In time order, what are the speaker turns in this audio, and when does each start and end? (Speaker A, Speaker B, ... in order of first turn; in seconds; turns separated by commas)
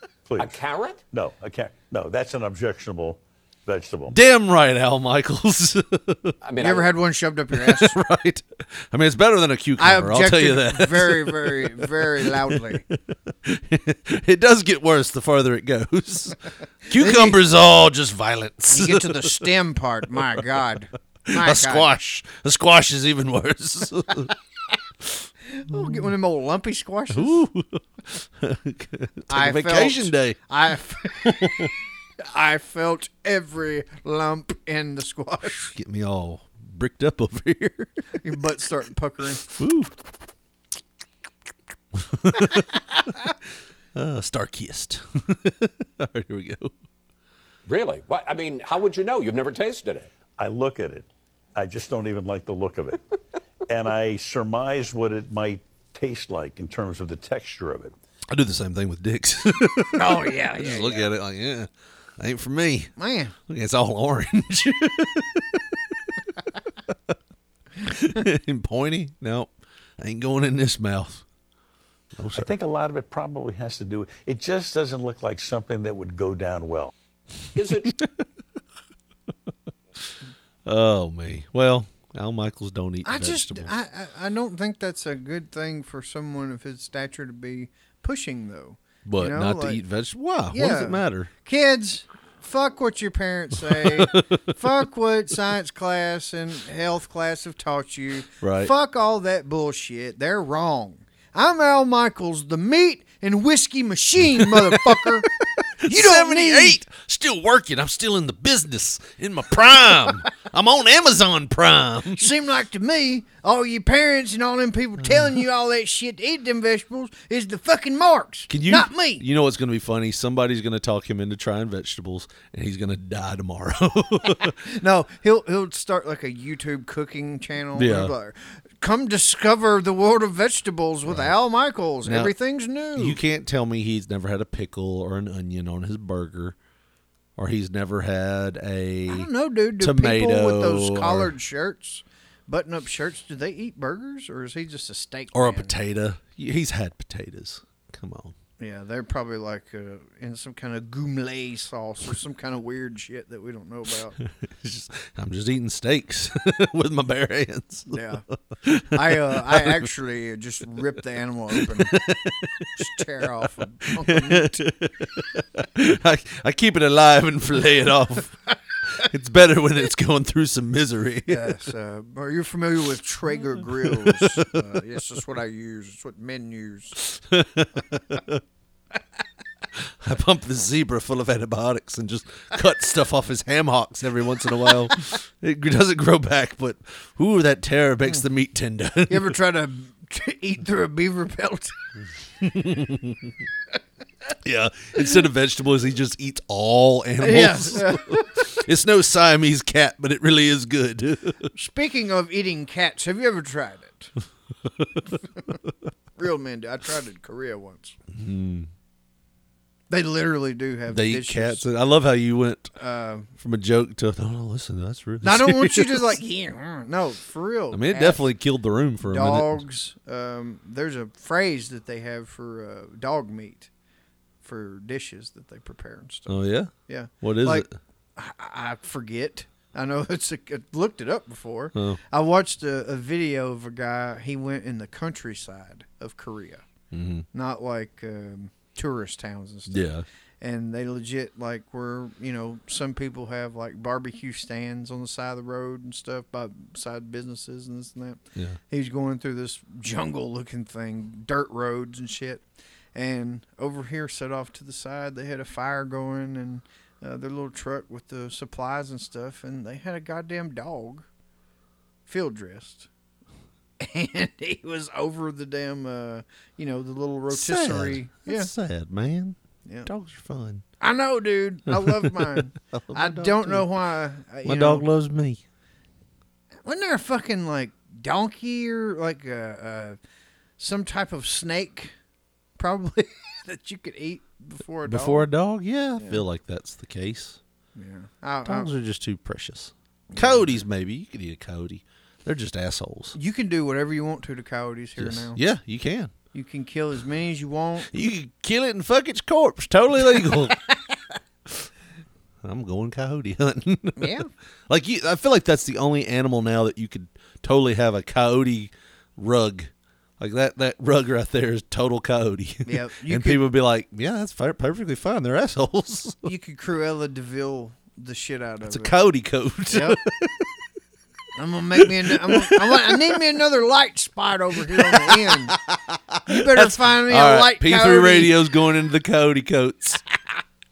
Speaker A: 0.3-0.5, Speaker B: 0.4-1.0, Speaker A: 1.1-4.2, Speaker C: 4.1-6.3, Speaker B: 6.4-6.9, Speaker D: 6.6-7.9, Speaker C: 7.5-19.4, Speaker D: 9.8-12.8, Speaker D: 16.9-17.4, Speaker D: 18.7-21.9, Speaker C: 20.2-20.4, Speaker C: 21.3-24.3, Speaker C: 25.0-26.1, Speaker D: 25.5-27.4, Speaker C: 27.1-30.4, Speaker D: 29.3-31.6, Speaker C: 31.2-31.7, Speaker D: 32.2-35.7, Speaker C: 35.6-37.9, Speaker D: 38.2-39.4, Speaker C: 39.5-39.9, Speaker C: 42.0-42.8, Speaker C: 43.9-46.7, Speaker B: 47.7-50.1, Speaker A: 50.4-53.0, Speaker A: 53.7-57.9, Speaker C: 58.3-62.9, Speaker D: 59.9-61.1, Speaker D: 63.0-63.3, Speaker C: 63.5-65.7, Speaker C: 67.8-71.2, Speaker C: 72.1-72.5, Speaker A: 72.3-76.9, Speaker B: 77.5-77.9, Speaker C: 77.8-78.2, Speaker C: 80.6-83.7, Speaker D: 83.0-89.8, Speaker C: 89.0-91.3, Speaker D: 90.5-105.3, Speaker C: 93.6-94.2, Speaker C: 98.4-98.7, Speaker C: 104.3-105.1, Speaker C: 105.8-112.2, Speaker D: 105.8-106.8, Speaker D: 112.1-119.2, Speaker C: 118.5-124.5, Speaker D: 124.6-133.2, Speaker C: 127.7-128.1, Speaker C: 131.1-131.3, Speaker C: 132.0-132.3, Speaker C: 132.9-136.6, Speaker C: 137.4-139.3, Speaker D: 139.1-145.8, Speaker C: 139.8-141.3, Speaker C: 145.3-148.3, Speaker D: 148.6-154.2, Speaker C: 154.2-158.1, Speaker D: 157.9-158.2, Speaker C: 158.6-159.9, Speaker D: 158.9-162.0, Speaker C: 161.5-162.7, Speaker D: 162.8-164.6, Speaker C: 163.9-168.4, Speaker C: 169.0-171.5, Speaker D: 171.2-177.0, Speaker C: 173.8-174.4, Speaker C: 177.0-178.4, Speaker C: 179.8-189.3, Speaker D: 189.1-191.7, Speaker C: 192.4-193.2, Speaker C: 194.4-201.5, Speaker D: 197.2-198.5, Speaker D: 201.5-204.1, Speaker D: 206.2-208.0, Speaker C: 208.1-208.7, Speaker D: 209.9-211.7, Speaker C: 210.9-212.7, Speaker D: 212.8-213.3, Speaker C: 213.4-216.1, Speaker D: 215.2-218.2, Speaker C: 217.7-219.6, Speaker D: 219.0-223.7, Speaker D: 224.4-236.6, Speaker C: 226.3-227.7, Speaker C: 231.7-232.0, Speaker C: 236.9-237.2, Speaker D: 237.3-239.8, Speaker C: 239.7-240.0, Speaker D: 240.4-252.4, Speaker D: 252.9-261.1, Speaker D: 262.1-262.9, Speaker D: 263.8-268.5, Speaker C: 267.3-270.6, Speaker D: 270.8-274.9, Speaker C: 271.7-273.7, Speaker C: 274.4-275.4, Speaker D: 276.6-280.0, Speaker D: 280.6-281.9, Speaker D: 282.6-285.3, Speaker C: 284.8-287.4, Speaker D: 287.7-288.7, Speaker C: 288.4-293.1, Speaker D: 290.1-290.6, Speaker D: 293.1-295.4, Speaker C: 295.0-296.1, Speaker D: 296.3-297.9, Speaker C: 297.9-300.6, Speaker C: 302.4-316.2, Speaker D: 303.9-304.3, Speaker D: 312.6-313.4, Speaker D: 316.2-318.9, Speaker C: 318.6-320.4, Speaker D: 319.7-320.0, Speaker D: 321.4-325.6, Speaker C: 321.8-323.2, Speaker C: 324.7-330.0, Speaker D: 326.2-328.4